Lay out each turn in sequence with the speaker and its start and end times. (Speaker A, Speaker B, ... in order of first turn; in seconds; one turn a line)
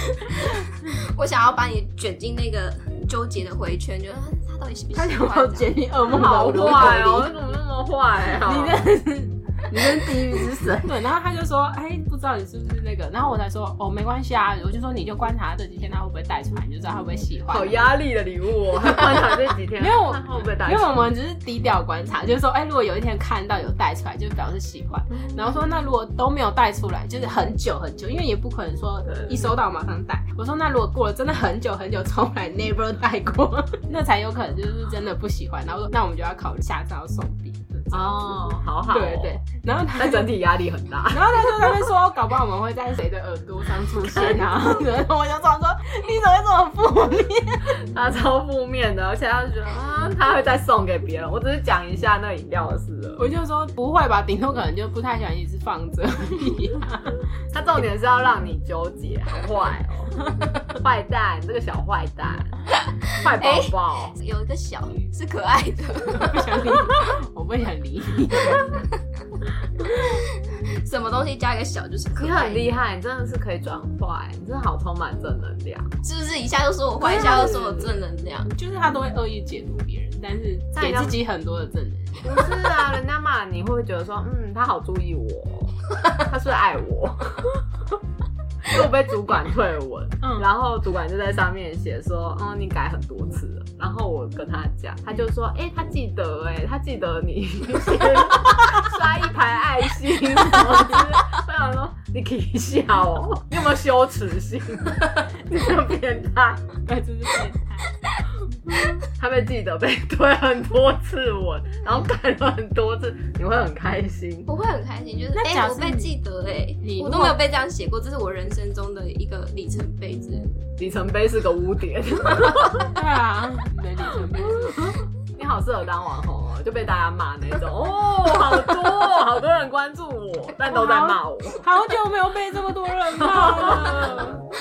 Speaker A: 0.3-5.8
Speaker B: 4.9-7.3
Speaker C: 6.0-8.9
Speaker B: 8.4-17.8
Speaker C: 17.5-21.0
Speaker B: 19.8-40.5
Speaker C: 37.9-39.4
Speaker C: 39.9-41.9
Speaker B: 41.1-47.8
Speaker C: 44.2-44.5
Speaker C: 47.8-53.2
Speaker B: 53.2-57.2
Speaker C: 57.5-60.2
Speaker C: 60.7-62.6
Speaker C: 63.1-64.1
Speaker A: 63.4-66.8
Speaker B: 66.1-68.8
Speaker A: 69.8-72.8
Speaker C: 72.2-75.9
Speaker A: 76.0-78.5
Speaker C: 77.0-78.0
Speaker B: 77.1-77.5
Speaker B: 78.5-82.4
Speaker C: 80.7-81.2
Speaker C: 82.2-87.6
Speaker C: 88.6-106.7
Speaker B: 90.2-90.5
Speaker B: 106.8-108.0
Speaker C: 109.1-114.5
Speaker A: 114.5-120.7
Speaker B: 115.3-116.1
Speaker B: 116.8-117.4
Speaker C: 120.8-122.9
Speaker B: 122.8-125.0
Speaker C: 125.3-131.6
Speaker B: 130.7-134.4
Speaker C: 133.2-134.2